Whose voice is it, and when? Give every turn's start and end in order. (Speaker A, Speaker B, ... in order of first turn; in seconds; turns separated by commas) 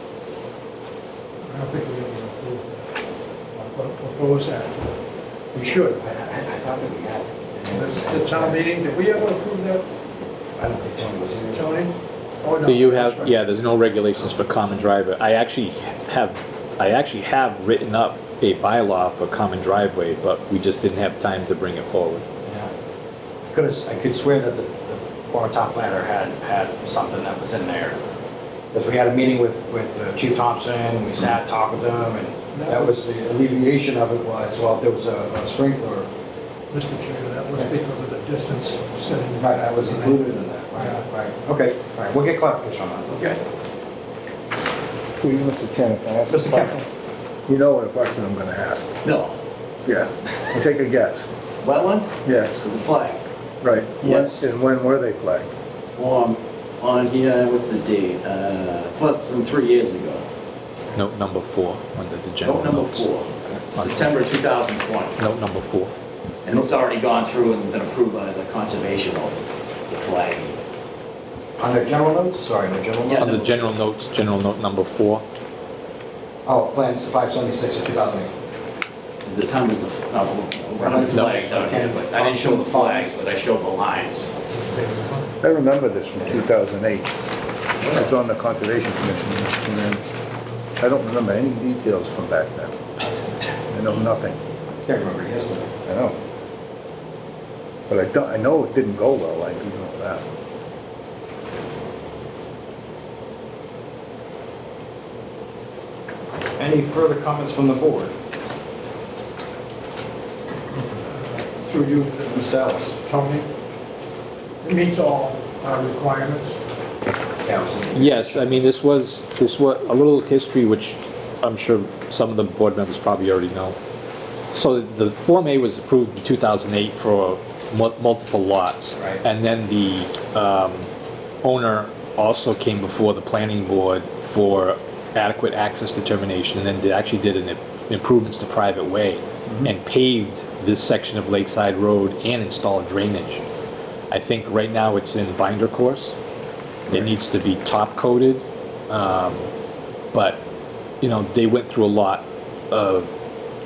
Speaker A: 1.5-2.9, Speaker A: 3.6-5.0, Speaker A: 5.5-6.0, Speaker B: 5.8-8.6, Speaker A: 7.7-9.8, Speaker B: 10.6-11.8, Speaker A: 11.5-13.4, Speaker C: 12.7-22.2, Speaker B: 23.5-28.0, Speaker B: 28.7-36.1, Speaker A: 32.5-33.0, Speaker A: 36.7-40.2, Speaker B: 39.4-43.1, Speaker A: 40.8-41.0, Speaker D: 43.1-43.4, Speaker E: 45.2-46.8, Speaker B: 46.3-46.8, Speaker E: 47.5-49.0, Speaker D: 49.0-49.4, Speaker E: 49.9-51.3, Speaker D: 51.6-53.2, Speaker E: 52.2-52.7, Speaker E: 53.6-55.5, Speaker D: 54.0-54.5, Speaker D: 56.0-60.2, Speaker C: 61.0-63.1, Speaker D: 62.4-65.2, Speaker C: 63.8-64.2, Speaker C: 65.2-65.9, Speaker D: 66.5-70.6, Speaker B: 71.6-73.4, Speaker D: 73.0-73.5, Speaker C: 73.2-75.2, Speaker B: 76.5-78.3, Speaker D: 79.2-84.3, Speaker B: 80.8-83.2, Speaker C: 81.1-81.5, Speaker E: 85.4-87.1, Speaker E: 87.9-90.0, Speaker E: 90.8-92.7, Speaker E: 93.7-94.4, Speaker B: 94.8-95.8, Speaker E: 95.9-96.2, Speaker E: 97.9-100.2, Speaker B: 106.6-108.1, Speaker A: 111.2-112.4, Speaker B: 112.2-113.0, Speaker A: 113.0-113.5, Speaker A: 114.6-116.6, Speaker B: 117.4-118.7, Speaker C: 117.9-123.8, Speaker C: 124.5-130.9, Speaker C: 131.4-143.4, Speaker C: 144.1-146.2, Speaker C: 146.9-149.5, Speaker C: 150.1-150.4, Speaker C: 151.0-153.1